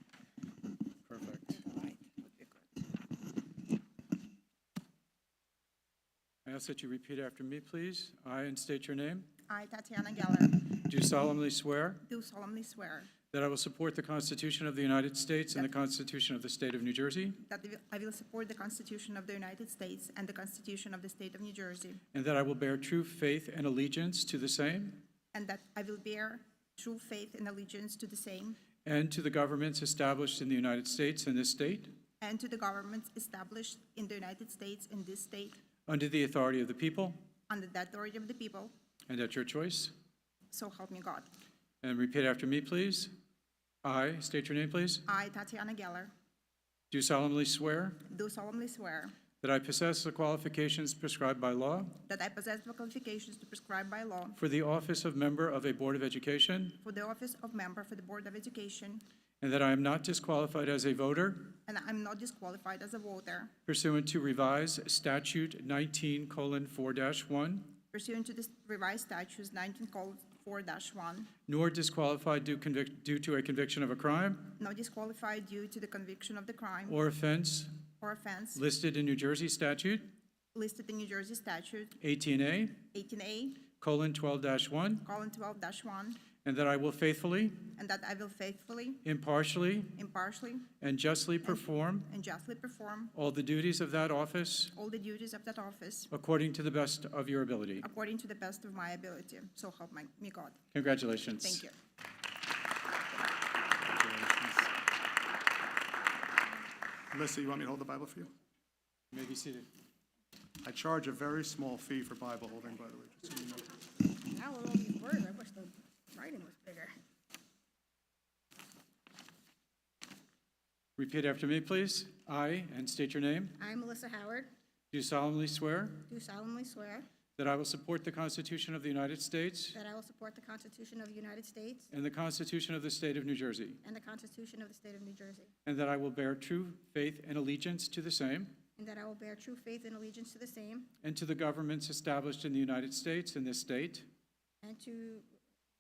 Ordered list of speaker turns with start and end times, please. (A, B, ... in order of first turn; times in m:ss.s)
0:01.0-0:01.6 A
0:01.5-0:02.6 B
0:06.4-0:09.3 A
0:09.5-0:10.6 B
0:10.8-0:12.0 A
0:12.0-0:13.1 B
0:13.3-0:17.4 A
0:17.4-0:22.0 B
0:22.1-0:25.0 A
0:25.3-0:28.6 B
0:28.8-0:31.9 A
0:32.2-0:35.6 B
0:35.9-0:37.2 A
0:37.5-0:38.7 B
0:39.1-0:39.9 A
0:40.5-0:41.3 B
0:41.8-0:43.1 A
0:43.8-0:45.0 A
0:45.0-0:46.1 B
0:46.9-0:48.0 A
0:48.1-0:49.2 B
0:49.4-0:52.0 A
0:52.0-0:54.4 B
0:54.4-0:56.8 A
0:56.8-0:59.0 B
0:59.4-1:01.6 A
1:01.6-1:03.5 B
1:03.7-1:07.8 A
1:07.9-1:11.3 B
1:11.5-1:14.6 A
1:14.6-1:17.0 B
1:16.9-1:17.7 A
1:18.0-1:18.6 B
1:18.6-1:20.1 A
1:20.5-1:22.0 B
1:22.0-1:22.8 A
1:22.9-1:23.6 B
1:23.7-1:25.1 A
1:25.0-1:26.2 B
1:26.4-1:27.7 A
1:27.7-1:29.0 B
1:29.0-1:29.9 A
1:29.9-1:30.7 B
1:30.8-1:32.1 A
1:31.4-1:33.1 B
1:33.1-1:34.7 A
1:34.7-1:36.1 B
1:36.1-1:37.9 A
1:37.8-1:40.6 B
1:40.7-1:41.6 A
1:41.4-1:41.8 B
1:43.8-1:44.7 C
1:47.1-1:48.3 C
1:49.1-1:49.7 A
1:50.6-1:53.6 C
1:54.1-1:57.0 D
2:01.0-2:03.6 A
2:03.6-2:04.5 D
2:04.9-2:06.1 A
2:06.0-2:07.1 D
2:07.4-2:09.8 A
2:09.7-2:11.9 D
2:11.9-2:13.8 A
2:13.8-2:15.5 D
2:15.6-2:18.6 A
2:18.8-2:20.9 D
2:21.0-2:24.1 A
2:24.6-2:25.3 D